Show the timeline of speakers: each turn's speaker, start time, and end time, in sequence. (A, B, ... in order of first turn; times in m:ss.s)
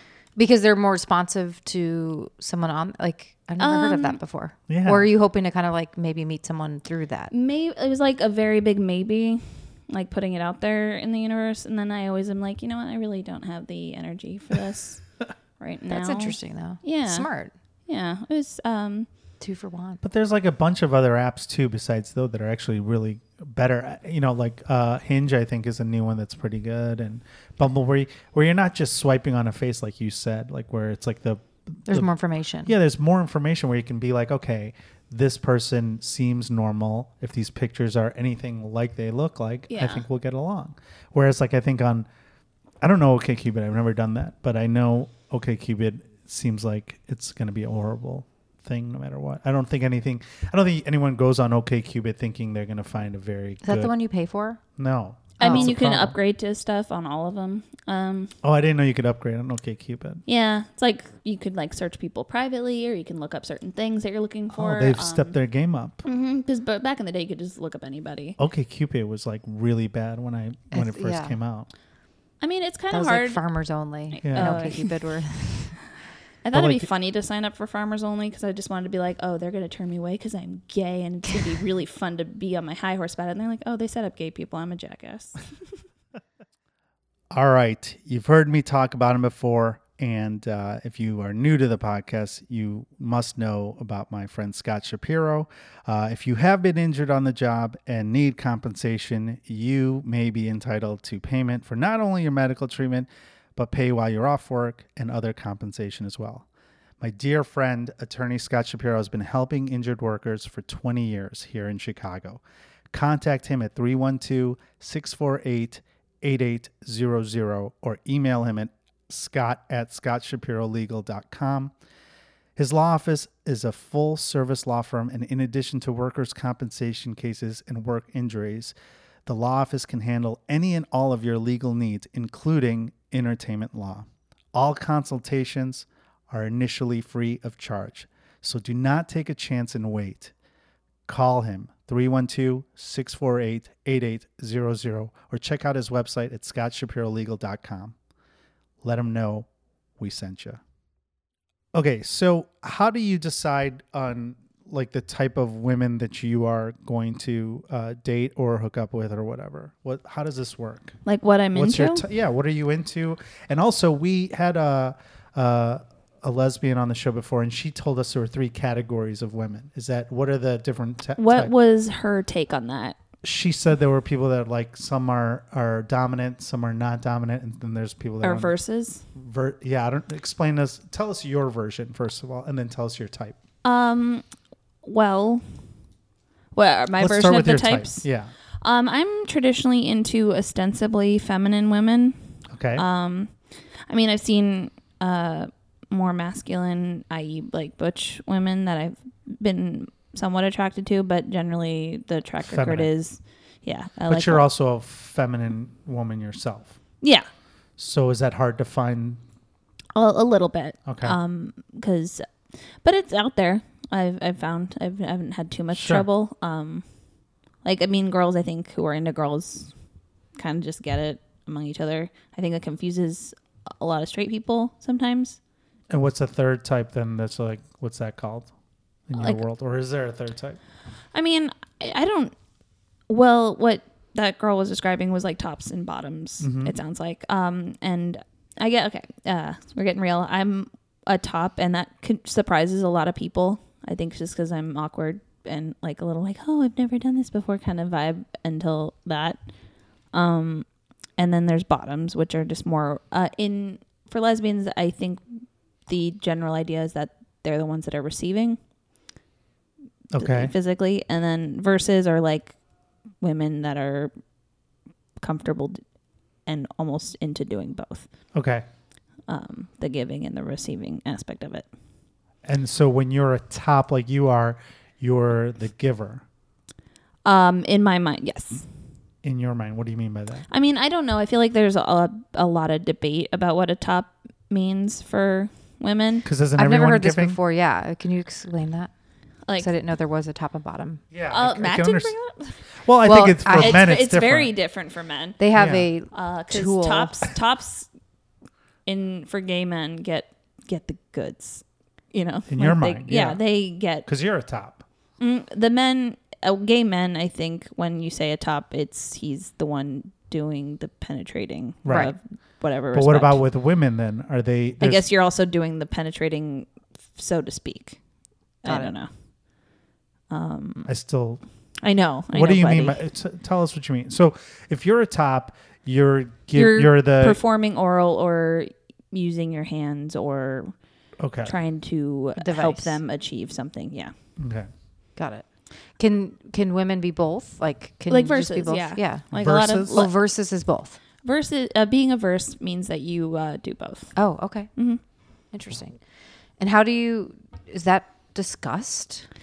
0:00.4-0:07.3 A
0:03.6-0:04.2 B
0:04.7-0:05.1 C
0:07.3-0:15.0 B
0:15.6-0:17.3 B
0:15.9-0:17.5 A
0:17.9-0:19.1 B
0:19.4-0:20.0 A
0:20.0-0:32.1 C
0:31.9-0:32.7 A
0:32.6-0:42.1 C
0:39.7-0:40.0 B
0:42.8-0:53.9 C
0:53.6-0:54.6 A
0:54.8-0:56.2 C
0:55.4-0:55.7 A
0:55.4-0:58.3 B
0:58.4-1:00.2 C
1:00.3-1:05.3 B
1:04.5-1:06.0 C
1:06.0-1:08.4 B
1:08.4-1:11.7 C
1:10.7-1:11.4 A
1:12.4-1:13.4 B
1:12.9-1:15.8 A
1:14.1-1:15.0 B
1:14.2-1:14.7 C
1:16.4-1:25.4 B
1:16.5-1:16.9 C
1:27.3-1:46.5 C
1:47.0-2:01.7 C
2:02.6-2:08.7 C
2:09.3-2:20.3 C
2:21.1-2:28.0 C
2:28.8-2:29.5 C
2:30.0-2:30.6 C
2:31.7-2:41.0 C
2:41.1-2:42.0 B
2:41.5-2:51.5 C
2:51.2-2:53.0 B
2:53.2-2:58.6 C
2:58.2-2:59.0 B
2:59.2-3:03.4 C
3:03.6-3:04.2 B
3:04.8-3:05.6 B
3:06.6-3:08.1 B
3:07.0-3:08.3 C
3:08.6-3:12.2 B
3:12.5-3:12.8 C
3:12.8-3:13.4 B
3:13.9-3:24.4 B
3:22.4-3:22.9 C
3:24.1-3:26.8 C
3:27.0-3:27.3 B
3:27.8-3:29.2 C
3:30.0-3:32.3 B
3:30.9-3:31.2 C
3:32.8-3:36.8 B
3:35.7-3:36.1 C
3:37.6-3:39.7 B
3:40.4-3:45.4 B
3:45.9-3:48.5 C
3:49.1-3:50.6 C
3:49.2-3:49.4 B
3:51.1-3:52.4 B
3:53.1-4:09.4 B
3:56.4-3:56.8 C
4:10.1-4:18.6 B
4:20.1-4:20.5 C
4:20.2-4:22.6 B
4:23.2-4:24.1 B
4:25.2-4:25.8 B
4:26.5-4:28.1 B
4:28.3-4:28.6 C
4:29.3-4:31.7 B
4:32.4-4:36.2 C
4:37.2-4:38.7 B
4:39.2-4:40.5 C
4:40.5-4:46.3 B
4:46.3-4:47.4 C
4:46.6-4:48.9 A
4:49.5-4:49.7 B
4:49.6-4:51.0 A
4:51.1-4:52.2 C
4:51.3-4:52.6 B
4:52.8-4:54.5 C
4:53.0-4:53.9 A
4:53.5-4:55.4 B
4:55.4-4:57.2 A
4:55.5-4:55.9 C
4:56.1-4:57.9 B
4:58.9-5:04.1 B
5:02.5-5:03.4 C
5:04.0-5:04.8 C
5:05.2-5:13.4 B
5:11.8-5:12.1 C
5:12.9-5:15.0 C
5:14.8-5:18.0 B
5:18.6-5:19.1 B
5:18.6-5:19.0 A
5:20.3-5:20.9 B
5:20.9-5:21.4 C
5:21.8-5:23.0 B
5:22.3-5:27.4 C
5:26.6-5:26.9 A
5:26.6-5:30.8 B
5:31.2-5:31.5 C
5:31.4-5:34.1 B
5:32.4-5:33.0 A
5:34.4-5:34.7 C
5:35.2-5:39.3 A
5:38.1-5:40.2 B
5:39.3-5:40.0 C
5:39.9-5:41.0 A
5:41.2-5:44.2 B
5:44.2-5:44.7 A
5:44.8-5:45.0 B
5:45.5-5:46.0 A
5:46.6-5:49.3 A